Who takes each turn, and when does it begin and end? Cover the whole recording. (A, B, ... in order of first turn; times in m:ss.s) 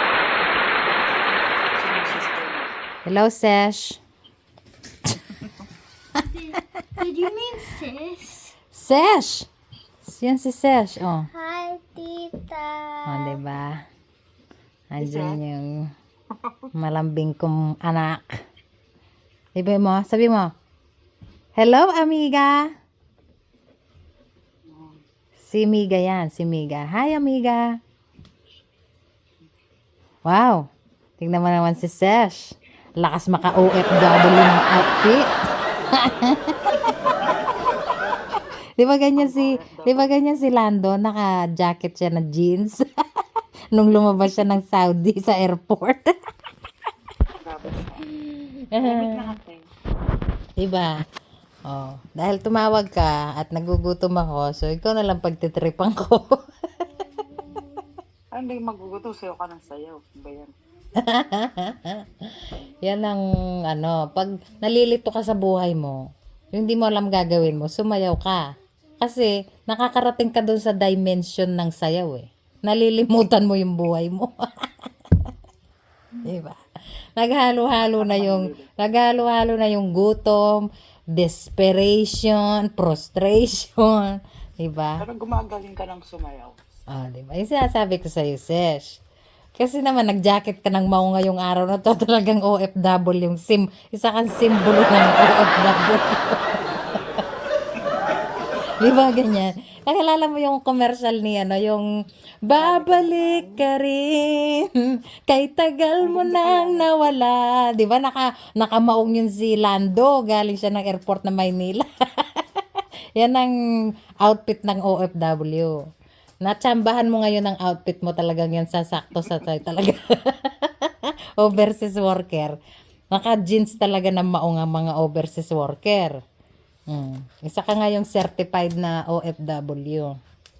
0:01.8-0:02.7 A
0:03.1-0:04.0 B
0:07.0-0:08.5 C
0:08.7-0:09.5 B
0:10.0-0:11.3 B
0:11.3-0:13.4 C
0:13.1-0:13.8 B
0:14.9-0:15.9 B
0:15.0-0:15.4 A
0:16.7-0:18.3 B
0:19.6-0:20.5 B
0:21.6-0:22.7 B
0:24.7-0:25.0 A
0:25.4-0:27.7 B
0:30.3-0:30.7 B
0:31.2-0:35.2 B
0:35.9-0:37.3 B
0:36.7-0:38.1 A
0:38.8-0:42.9 B
0:39.1-0:40.1 A
0:43.7-0:46.1 B
0:47.4-0:48.0 A
0:48.7-0:49.2 B
0:48.8-0:49.6 A
0:50.6-0:51.0 B
0:51.7-0:56.4 B
0:58.3-1:00.5 A
1:01.0-1:08.4 B
1:09.0-1:14.7 B
1:16.2-1:16.6 B
1:17.2-1:25.0 B
1:17.8-1:18.9 A
1:25.0-1:26.6 A
1:26.9-1:29.0 B
1:29.6-1:37.0 B
1:38.8-1:41.9 B
1:38.9-1:39.4 A
1:42.4-1:52.4 B
1:42.6-1:43.7 A
1:46.0-1:47.2 A
1:53.2-1:53.5 B
1:54.2-1:55.7 B
1:56.4-2:02.6 B
2:03.1-2:06.2 B
2:06.9-2:10.2 B